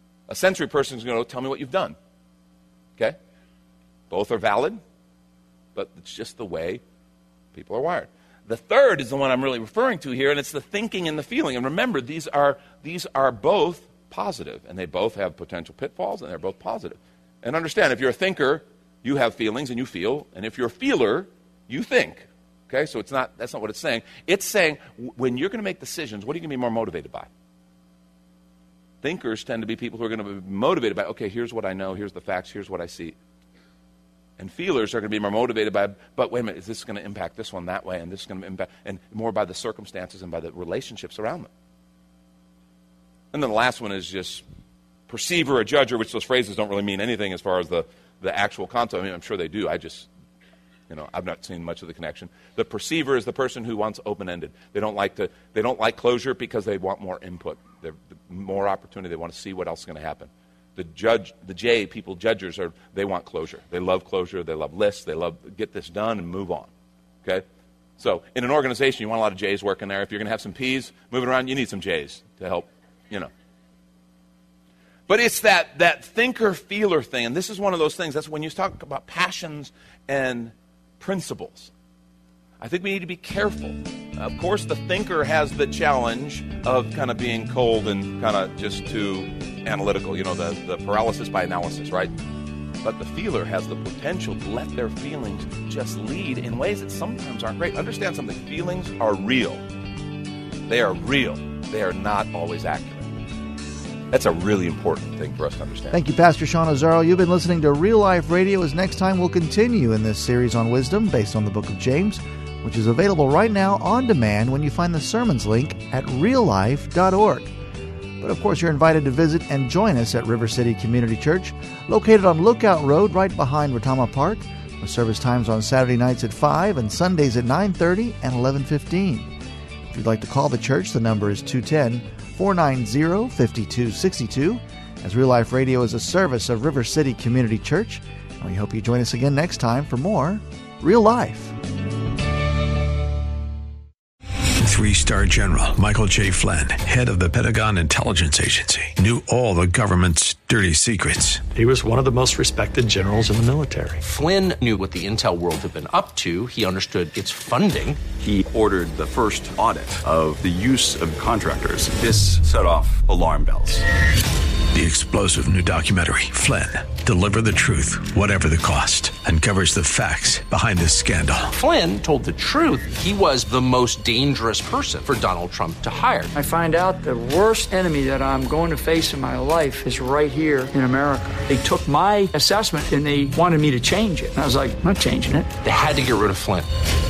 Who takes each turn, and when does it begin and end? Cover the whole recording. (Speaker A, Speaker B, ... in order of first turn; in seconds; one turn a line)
Speaker A: 0.3-1.9
Speaker A: 4.1-4.8
Speaker A: 5.7-6.8
Speaker A: 7.5-27.3
Speaker A: 29.0-33.1
Speaker A: 34.4-41.5
Speaker A: 43.3-44.4
Speaker A: 45.1-50.1
Speaker A: 50.9-66.7
Speaker A: 68.0-73.3
Speaker A: 75.1-81.7
Speaker A: 82.6-92.1
Speaker A: 92.8-99.6
Speaker A: 100.7-103.1
Speaker A: 104.1-106.0
Speaker B: 105.9-117.5
Speaker B: 118.2-129.3
Speaker B: 129.9-141.6
Speaker C: 144.6-151.4
Speaker D: 151.5-154.0
Speaker E: 154.0-158.0
Speaker F: 158.2-163.8
Speaker C: 164.7-171.5
Speaker E: 171.5-176.3
Speaker G: 176.3-185.6
Speaker E: 185.6-186.7